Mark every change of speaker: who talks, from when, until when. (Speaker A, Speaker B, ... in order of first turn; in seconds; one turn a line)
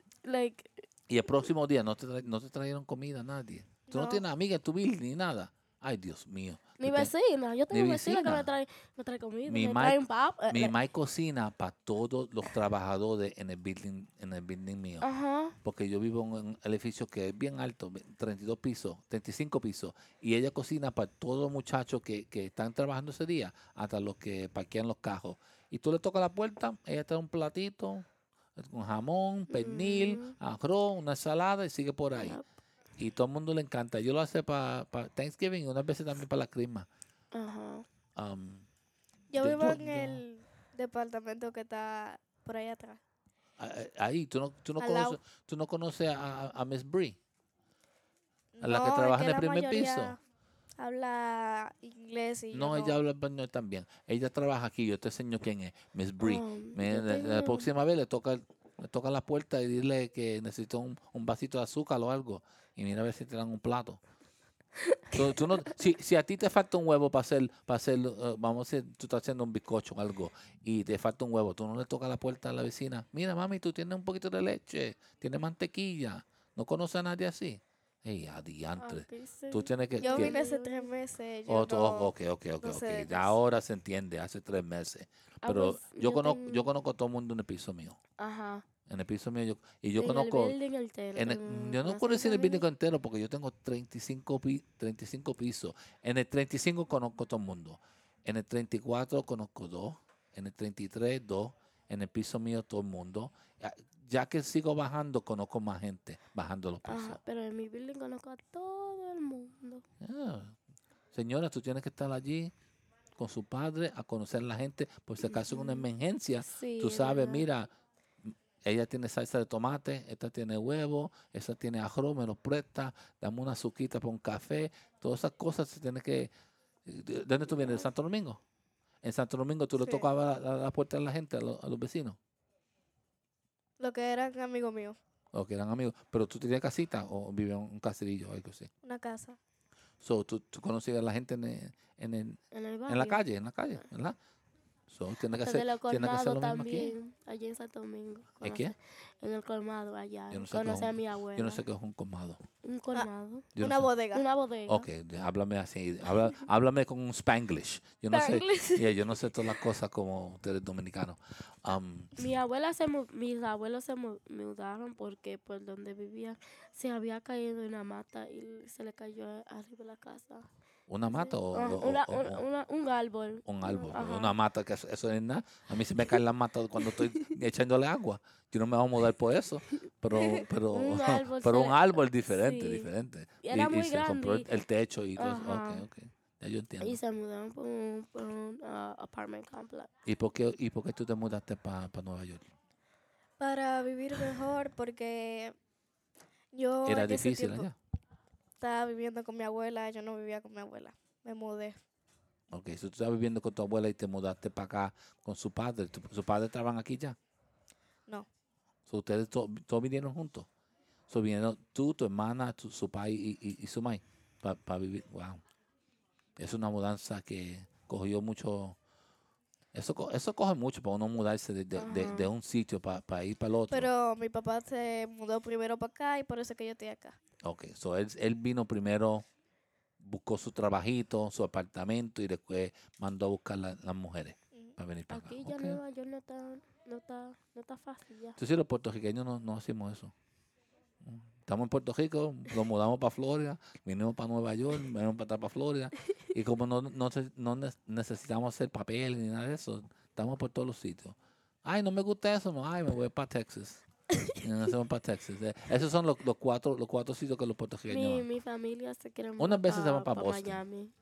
Speaker A: 0.2-0.8
Speaker B: 1.1-7.1
Speaker C: 3.9-4.2
Speaker A: 6.8-10.7
Speaker B: 7.7-8.5
Speaker B: 9.4-15.1
Speaker A: 15.0-15.5
Speaker B: 15.6-32.4
Speaker A: 29.5-30.3
Speaker B: 33.0-36.9
Speaker A: 37.3-37.8
Speaker B: 38.1-38.6
Speaker C: 39.3-43.0
Speaker B: 39.3-40.2
Speaker B: 43.6-47.2
Speaker C: 44.8-45.2
Speaker C: 48.5-50.2
Speaker B: 48.6-50.1
Speaker C: 50.8-53.0
Speaker B: 52.5-64.0
Speaker A: 56.2-57.7
Speaker A: 64.9-65.2
Speaker B: 65.1-80.3
Speaker A: 78.8-80.9
Speaker C: 80.0-83.4
Speaker B: 81.5-88.0
Speaker A: 85.4-86.7
Speaker A: 88.2-88.6
Speaker B: 88.9-90.6
Speaker A: 90.0-92.7
Speaker B: 91.1-107.2
Speaker A: 106.8-109.8
Speaker B: 110.0-110.5
Speaker B: 111.1-112.5
Speaker B: 113.2-117.7
Speaker A: 115.2-115.9
Speaker A: 116.4-117.5
Speaker B: 118.2-126.3
Speaker B: 126.8-128.4
Speaker B: 129.0-132.2
Speaker C: 129.8-130.1
Speaker C: 133.8-134.9
Speaker B: 135.3-138.7
Speaker C: 138.8-139.4
Speaker B: 140.0-144.2
Speaker A: 142.5-143.2
Speaker B: 144.9-146.9
Speaker A: 145.3-151.6
Speaker B: 148.4-148.7
Speaker B: 150.3-152.4
Speaker A: 152.6-153.5
Speaker C: 152.9-154.2
Speaker B: 153.5-153.9
Speaker A: 154.1-154.8
Speaker B: 154.7-162.3
Speaker C: 158.1-159.0
Speaker A: 162.2-170.4
Speaker B: 170.9-172.4
Speaker A: 171.1-174.3
Speaker B: 173.4-187.0
Speaker A: 176.8-177.3
Speaker A: 180.1-182.9
Speaker A: 183.4-184.5
Speaker A: 185.2-185.8
Speaker A: 186.8-189.9
Speaker B: 190.1-192.5
Speaker C: 193.4-195.5
Speaker C: 196.5-197.7
Speaker B: 196.8-197.8
Speaker C: 198.6-201.7
Speaker B: 202.5-207.2
Speaker B: 208.9-210.5
Speaker B: 211.1-215.4
Speaker B: 216.4-218.8
Speaker B: 219.7-223.9
Speaker A: 221.8-222.3
Speaker C: 223.7-227.2
Speaker B: 227.4-229.2
Speaker B: 230.0-235.8
Speaker A: 235.1-238.3
Speaker B: 238.4-240.1
Speaker B: 241.0-253.8
Speaker B: 254.3-258.3
Speaker A: 257.9-260.9
Speaker B: 259.4-260.6